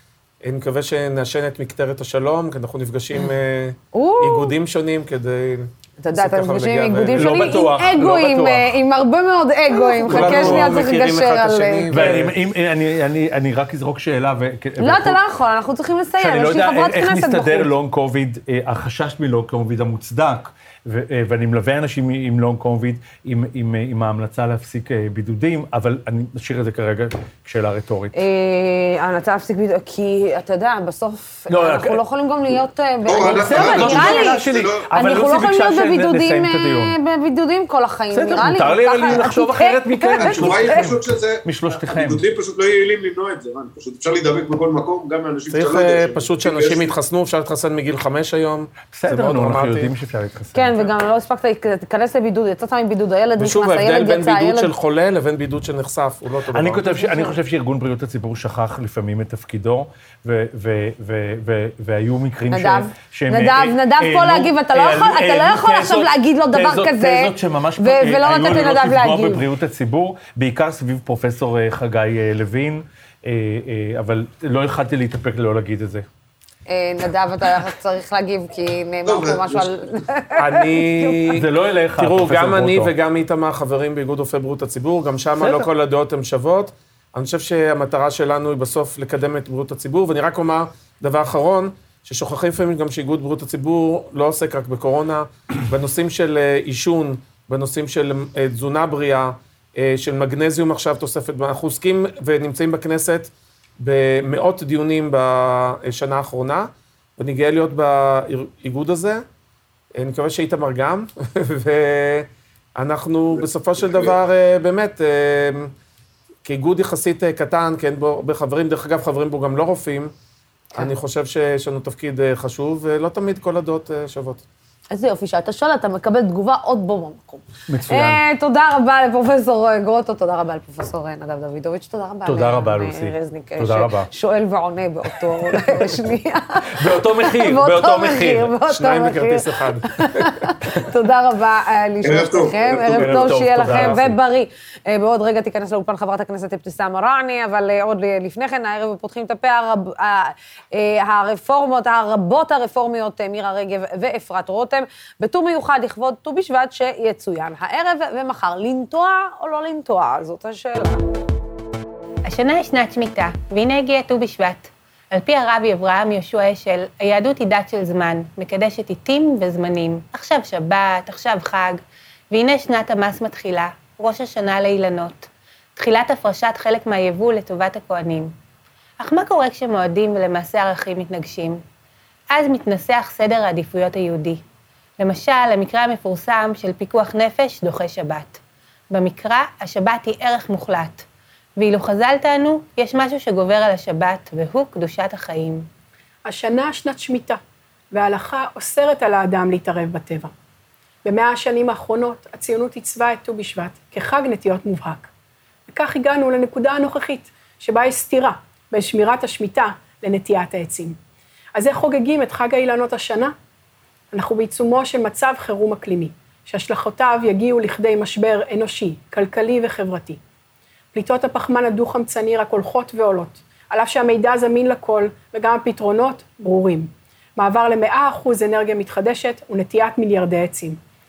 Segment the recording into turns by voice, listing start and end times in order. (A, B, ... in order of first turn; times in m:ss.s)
0:00.4-0:07.4 A
0:03.9-0:04.6 B
0:06.0-0:12.1 B
0:07.2-0:08.8 C
0:09.7-0:12.4 A
0:10.0-0:10.9 C
0:11.9-0:15.2 C
0:14.8-0:17.7 B
0:16.2-0:28.2 C
0:28.2-0:40.9 B
0:31.5-0:32.0 C
0:33.1-0:34.9 D
0:33.2-0:37.0 C
0:38.1-0:42.2 C
0:40.2-0:46.9 D
0:45.5-0:49.9 A
0:48.8-0:50.9 C
0:50.5-0:54.7 B
0:53.4-0:56.9 A
0:56.5-1:16.1 C
0:57.0-0:57.3 B
1:02.5-1:09.5 B
1:16.7-1:21.4 B
1:19.0-1:19.7 D
1:20.4-1:49.2 A
1:21.4-1:22.9 C
1:25.4-1:25.7 C
1:50.0-1:55.7 A
1:53.4-1:54.2 D
1:56.4-2:00.1 A
2:00.8-2:04.4 A
2:04.9-2:41.0 B
2:07.7-2:08.2 C
2:12.2-2:14.1 C
2:16.7-2:19.1 C
2:18.7-2:19.8 A
2:22.0-2:23.8 D
2:22.9-2:24.2 C
2:42.3-2:58.3 E
2:59.0-3:01.6 E
3:02.3-3:04.4 E
3:05.0-3:08.4 E
3:08.9-3:11.0 E
3:11.6-3:15.7 E
3:16.2-3:17.4 F
3:17.9-3:20.3 F
3:21.0-3:25.1 F
3:25.7-3:31.0 F
3:31.6-3:33.4 F
3:34.1-3:40.2 F
3:40.9-3:50.8 F